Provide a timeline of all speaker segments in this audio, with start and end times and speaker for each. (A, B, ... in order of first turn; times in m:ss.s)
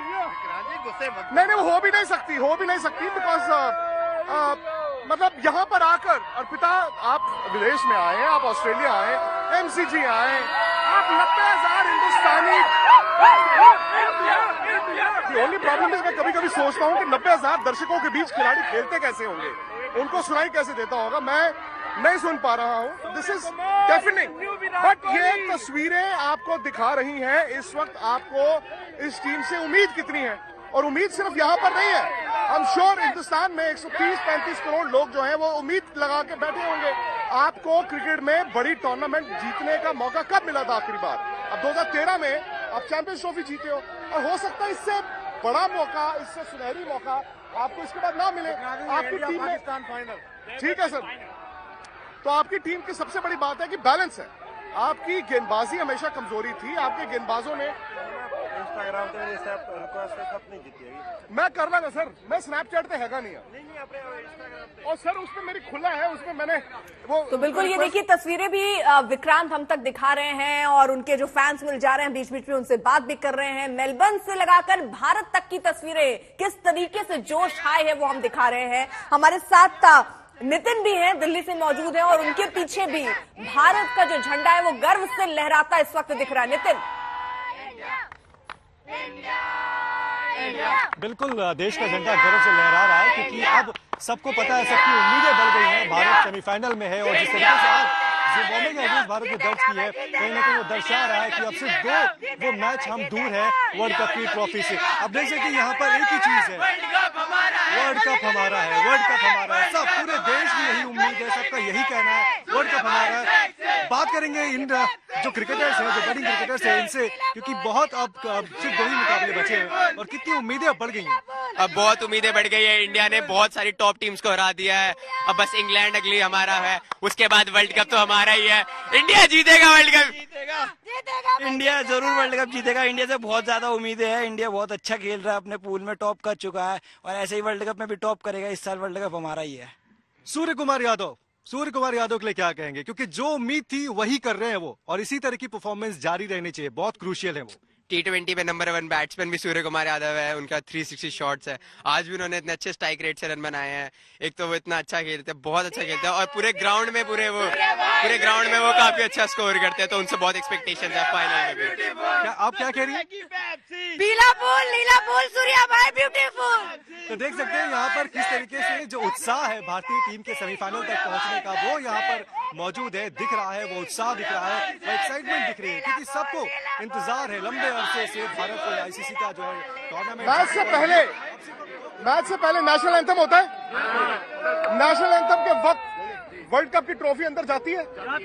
0:01.3-0:12.7 A
0:15.1-0:49.7 A
0:50.6-0:51.1 A
0:52.2-0:57.8 A
0:58.3-1:01.0 B
1:01.3-1:03.4 A
1:04.8-1:08.0 A
1:07.3-1:26.8 C
1:31.0-1:46.7 D
1:47.7-1:53.3 D
1:53.8-2:01.2 D
2:01.6-2:10.7 E
2:11.3-2:19.7 F
2:20.3-2:27.6 D
2:27.9-2:41.8 E
2:42.2-2:43.1 D
2:47.1-3:02.0 D
3:00.2-3:01.2 A
3:02.0-3:03.5 A
3:04.7-3:05.8 A
3:06.4-3:07.9 A